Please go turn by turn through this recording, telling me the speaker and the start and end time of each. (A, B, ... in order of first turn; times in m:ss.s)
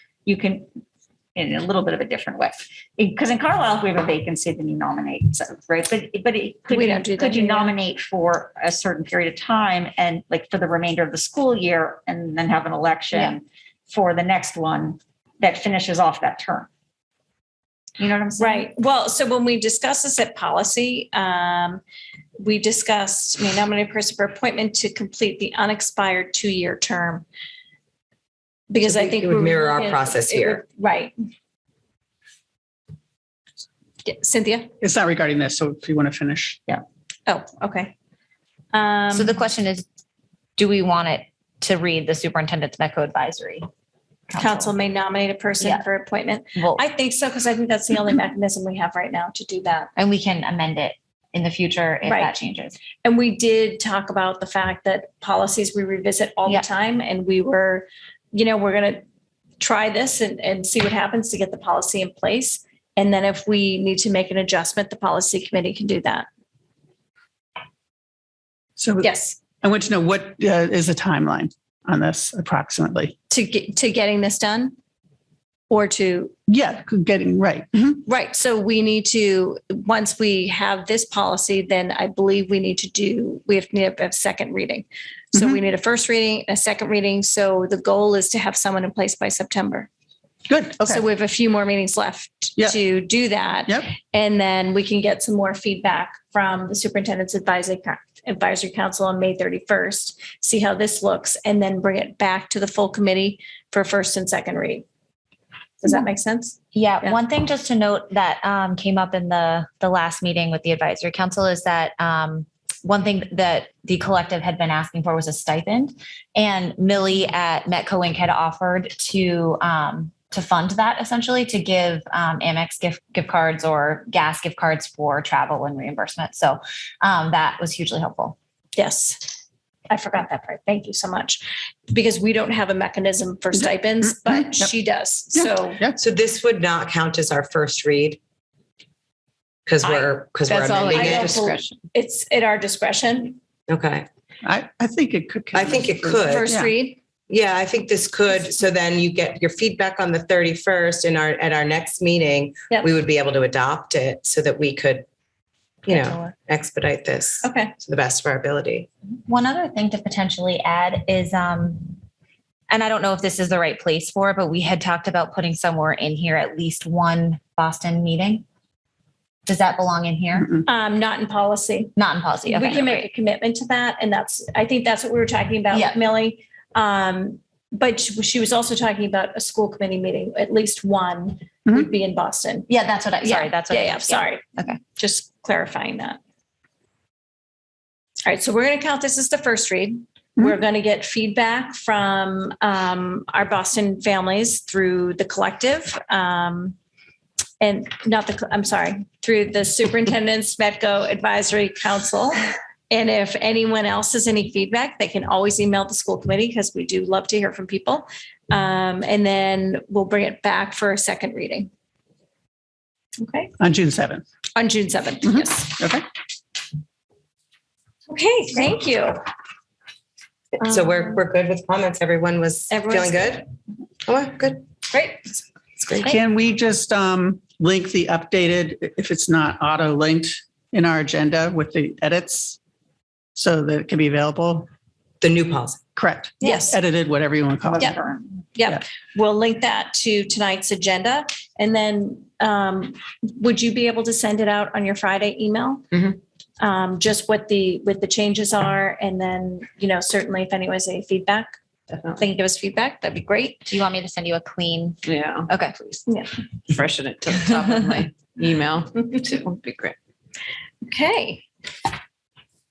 0:00.3-0:00.7 A
0:01.4-0:16.7 A
0:06.7-0:07.8 B
0:18.0-0:18.7 A
0:18.4-0:21.8 B
0:22.4-0:27.3 B
0:28.7-0:31.2 B
0:28.8-0:30.6 C
0:34.0-0:34.7 B
0:34.8-0:36.8 D
0:37.3-0:37.9 B
0:38.7-0:39.4 B
0:39.1-0:39.8 E
0:40.6-0:43.7 E
0:44.3-0:44.8 E
0:44.4-0:49.9 B
0:45.6-0:45.9 E
0:46.6-0:46.8 E
0:50.0-0:52.8 E
0:52.0-0:52.4 B
0:53.0-0:59.0 B
0:59.6-1:06.3 B
1:08.8-1:13.2 D
1:09.0-1:09.5 B
1:13.3-1:14.7 B
1:15.7-1:16.4 B
1:16.5-1:18.0 D
1:18.0-1:29.9 B
1:30.5-1:31.0 D
1:30.8-1:44.9 B
1:45.8-1:47.1 B
1:46.7-2:08.4 E
2:08.8-2:09.4 B
2:09.9-2:15.8 B
2:14.0-2:14.7 D
2:15.4-2:16.0 D
2:16.0-2:18.2 C
2:19.7-2:21.3 C
2:20.5-2:21.8 F
2:20.9-2:23.4 B
2:23.7-2:24.1 C
2:24.4-2:26.7 D
2:25.5-2:26.5 C
2:26.2-2:27.0 B
2:27.3-2:35.0 C
2:35.9-2:38.9 C
2:35.9-2:36.3 E
2:37.4-2:37.7 B
2:39.3-2:42.0 E
2:42.7-2:48.4 E
2:49.5-2:50.6 E
2:50.6-2:51.9 B
2:52.0-2:53.1 E
2:52.5-3:02.7 B
2:55.7-2:56.0 E
3:02.7-3:04.8 E
3:03.2-3:06.2 B
3:08.2-3:16.8 B
3:17.6-3:31.7 B
3:33.2-3:33.5 B
3:33.6-3:34.2 D
3:34.6-3:35.7 B
3:35.3-3:36.0 D
3:38.1-3:39.2 B
3:40.6-3:43.5 C
3:40.6-3:41.1 B
3:42.7-3:43.3 B
3:44.1-3:44.6 C
3:44.9-3:45.4 B
3:45.8-3:46.2 C
3:46.0-3:52.6 D
3:53.4-3:54.7 D
3:55.2-3:55.8 C
3:56.0-3:58.0 D
3:56.4-3:56.8 B
3:57.6-3:58.4 A
3:58.6-4:06.0 B
4:06.6-4:11.6 B
4:12.2-4:13.7 B
4:13.7-4:15.8 E
4:15.1-4:15.9 F
4:16.1-4:16.3 B
4:16.7-4:20.0 F
4:20.8-4:21.4 B